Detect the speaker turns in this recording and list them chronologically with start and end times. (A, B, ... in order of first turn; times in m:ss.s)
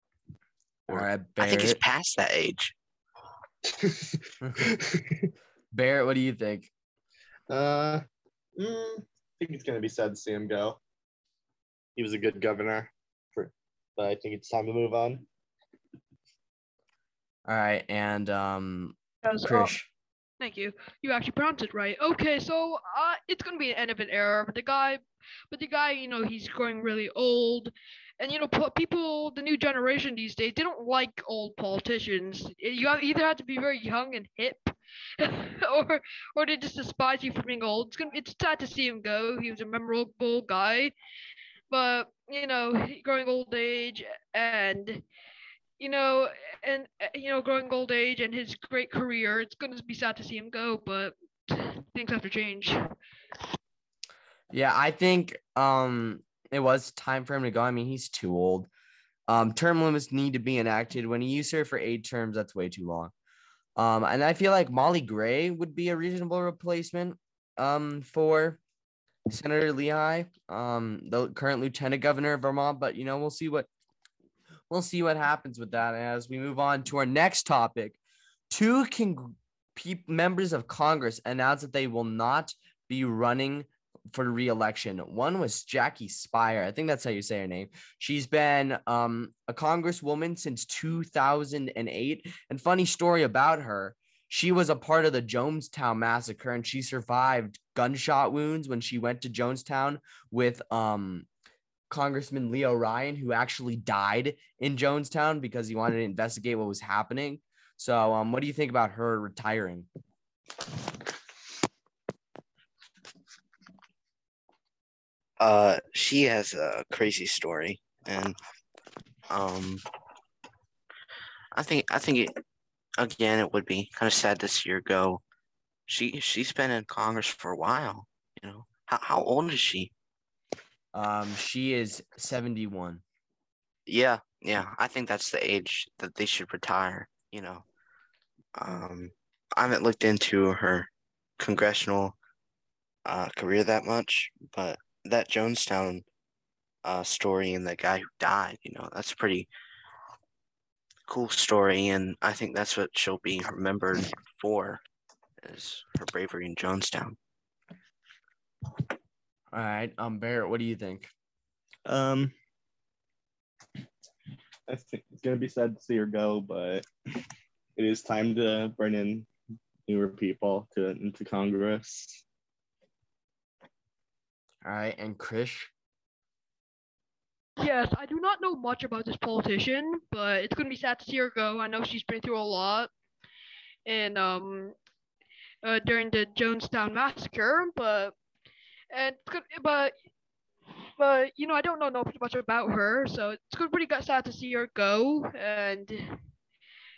0:00.9-0:01.8 A
0:00.9-0:02.7 B
0:03.7-0:05.2 C
0:04.4-0:04.7 A
0:05.7-0:06.7 A
0:07.5-0:08.0 C
0:08.6-0:10.8 C
0:12.0-0:15.3 C
0:17.5-0:19.9 A
0:19.2-0:19.7 D
0:20.4-0:40.9 D
0:41.7-0:45.0 D
0:45.8-0:52.9 D
0:54.5-0:58.7 A
0:59.3-1:03.1 A
1:03.8-1:08.6 A
1:09.3-1:13.7 A
1:14.7-1:18.0 A
1:18.5-1:41.3 A
1:41.9-1:49.9 A
1:55.4-1:58.4 B
1:59.3-1:59.8 B
2:01.6-2:02.3 B
2:03.0-2:05.2 B
2:05.9-2:09.9 B
2:10.9-2:13.0 A
2:13.9-2:17.6 B
2:18.6-2:20.9 B
2:21.4-2:22.2 B
2:23.1-2:26.0 B
2:26.8-2:29.5 B
2:31.1-2:34.8 B
2:35.4-2:37.2 B
2:39.5-2:41.1 A
2:41.9-2:42.4 C
2:44.7-2:46.9 C
2:47.8-2:49.3 C
2:49.9-2:52.2 C
2:54.6-2:55.7 A
2:57.6-3:02.9 D
3:03.9-3:04.8 D
3:05.6-3:08.1 D
3:08.9-3:09.9 D
3:11.0-3:16.2 D